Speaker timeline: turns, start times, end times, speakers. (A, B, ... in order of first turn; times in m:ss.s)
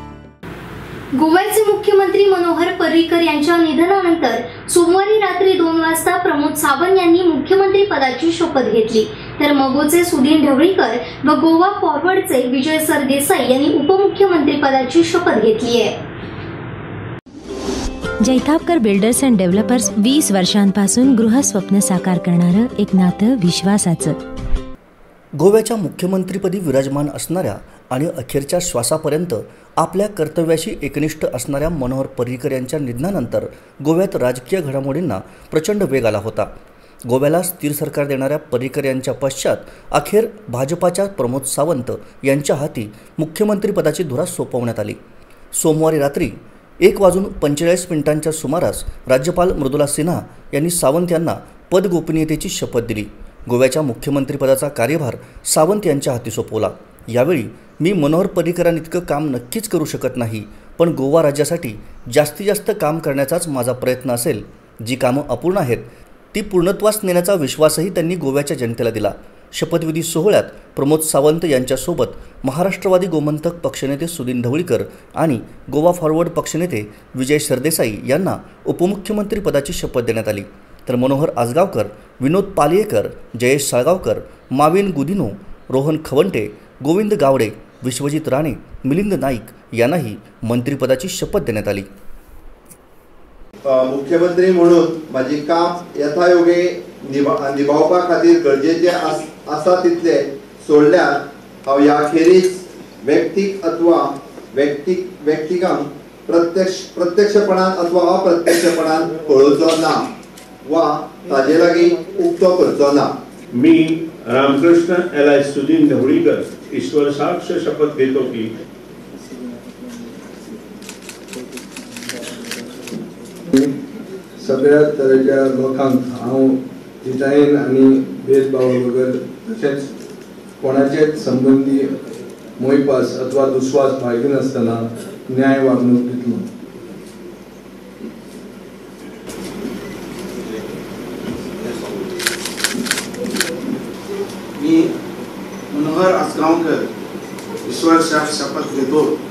0:01.2-0:16.0 A
0:18.2-0:24.2 B
0:25.4-0:36.5 C
0:37.0-0:45.0 C
0:45.5-1:31.9 C
1:33.6-1:50.1 D
1:50.6-1:53.1 D
1:53.5-1:58.5 E
2:03.5-2:03.7 F
2:04.4-2:09.9 F
2:10.6-2:11.9 F
2:12.6-2:16.5 F
2:25.7-2:26.8 G
2:27.6-2:29.2 G